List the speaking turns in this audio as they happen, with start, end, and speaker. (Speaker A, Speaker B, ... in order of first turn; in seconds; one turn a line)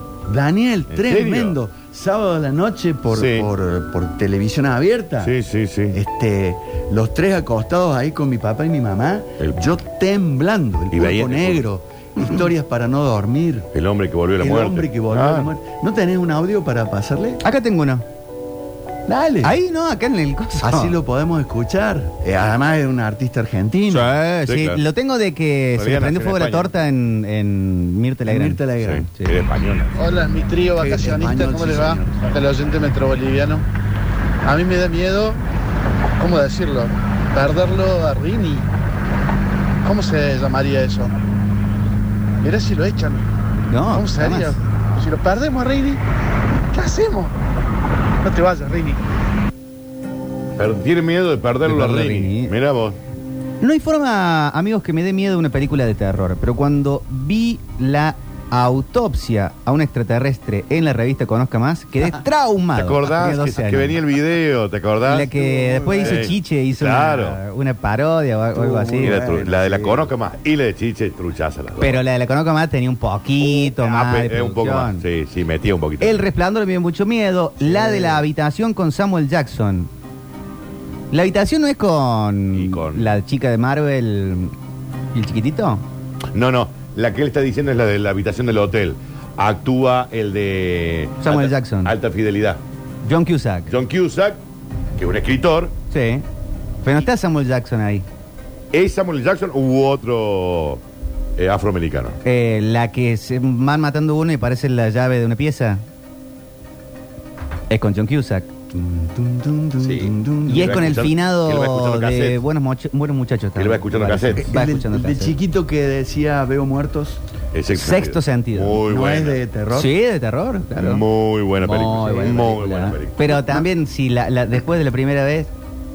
Speaker A: 0.3-5.3
Speaker B: 0.9-1.6
Speaker B: 3.1-3.5
Speaker B: 5.2-6.0
Speaker A: 5.9-13.7
Speaker B: 9.4-9.7
Speaker B: 10.9-11.7
Speaker B: 13.7-15.5
Speaker A: 14.4-17.4
Speaker C: 17.4-18.0
Speaker A: 19.1-19.6
Speaker C: 19.4-20.9
Speaker A: 20.6-24.1
Speaker C: 23.9-28.6
Speaker B: 24.4-24.8
Speaker B: 25.7-26.7
Speaker A: 28.2-29.1
Speaker B: 28.8-30.5
Speaker D: 29.9-33.6
Speaker A: 30.7-32.1
Speaker D: 34.4-35.4
Speaker D: 36.2-38.6
Speaker D: 39.8-41.1
Speaker D: 42.4-43.2
Speaker C: 43.7-44.5
Speaker D: 43.9-46.0
Speaker D: 46.7-47.3
Speaker D: 48.2-49.0
Speaker B: 50.6-53.0
Speaker C: 51.6-52.5
Speaker C: 53.6-64.0
Speaker B: 62.7-65.3
Speaker C: 65.1-69.2
Speaker A: 65.2-66.3
Speaker B: 66.0-67.4
Speaker A: 68.5-70.1
Speaker B: 69.0-72.0
Speaker C: 71.8-75.0
Speaker B: 73.4-76.2
Speaker C: 76.0-79.9
Speaker B: 77.6-78.2
Speaker C: 81.1-84.5
Speaker B: 82.5-83.2
Speaker C: 85.1-85.8
Speaker B: 86.3-92.6
Speaker C: 91.2-91.9
Speaker C: 93.0-93.7
Speaker B: 93.7-94.4
Speaker B: 95.0-95.7
Speaker C: 95.9-96.2
Speaker C: 96.8-98.0
Speaker B: 98.7-100.8
Speaker B: 101.4-102.2
Speaker C: 102.2-105.8
Speaker C: 107.7-108.5
Speaker A: 108.7-110.8
Speaker B: 109.8-112.4
Speaker C: 110.5-115.3
Speaker B: 113.5-114.5
Speaker A: 114.3-117.2
Speaker B: 117.5-119.4
Speaker C: 117.8-118.8
Speaker A: 118.8-119.9
Speaker C: 119.7-121.0
Speaker B: 120.8-123.3
Speaker C: 121.5-125.5